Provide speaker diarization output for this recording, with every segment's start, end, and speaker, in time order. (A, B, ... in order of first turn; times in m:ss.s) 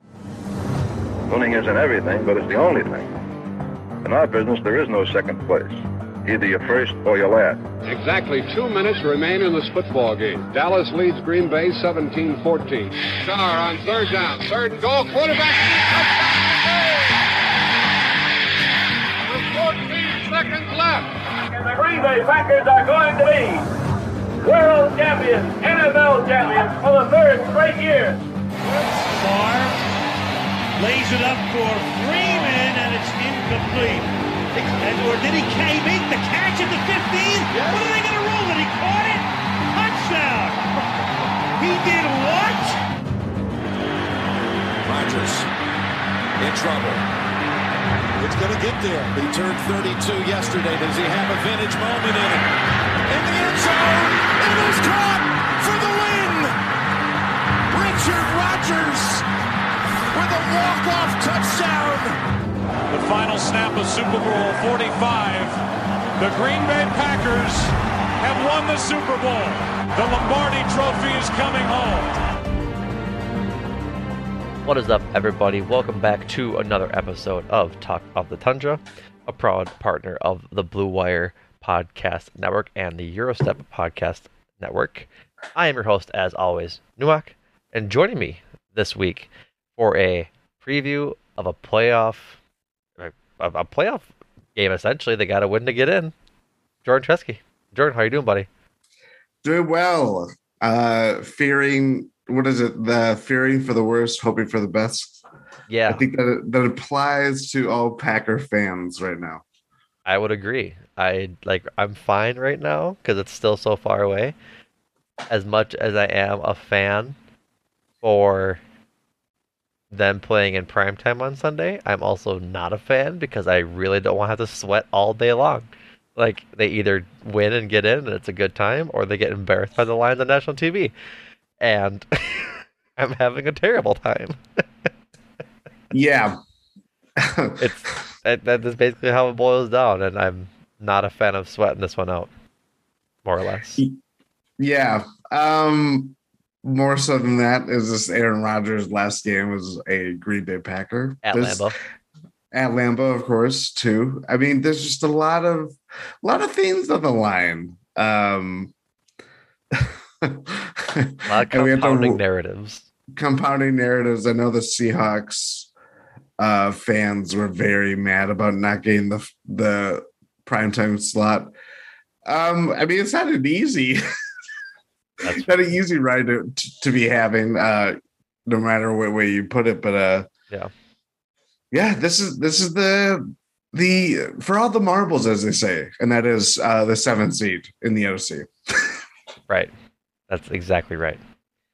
0:01.3-0:03.1 A
0:04.0-0:07.6 A
0:07.9-0:17.1 B
0:19.3-0:21.2 B
0:21.5-0:23.7 C
0:24.4-0:28.2 C
0:29.1-0:29.8 D
0:30.8-0:40.7 D
0:41.6-0:42.8 D
0:44.8-0:45.5 E
0:46.4-0:47.0 E
0:48.2-0:52.6 E
0:53.1-0:56.6 E
0:57.7-0:59.2 E
1:00.1-1:02.2 E
1:02.9-1:05.6 F
1:06.2-1:12.2 F
1:14.6-1:32.4 G
1:33.0-1:36.1 G
1:36.8-1:38.5 G
1:39.4-1:45.2 H
1:45.7-1:46.0 G
1:45.9-1:49.4 H
1:50.0-1:54.4 G
1:55.3-1:57.2 G
1:58.0-1:58.6 G
1:59.9-2:10.9 G
2:11.6-2:14.6 G
2:15.9-2:16.4 H
2:17.2-2:17.6 H
2:17.6-2:22.3 G
2:23.2-2:23.8 G
2:24.6-2:31.7 H
2:31.2-2:31.8 G
2:32.5-2:38.7 H
2:39.7-2:42.2 H
2:41.3-2:42.9 G
2:43.2-2:45.7 H
2:46.4-2:51.5 H
2:52.3-2:54.0 H
2:55.2-3:00.3 H
2:55.2-2:55.5 G
3:01.7-3:09.0 H
3:10.3-3:11.2 G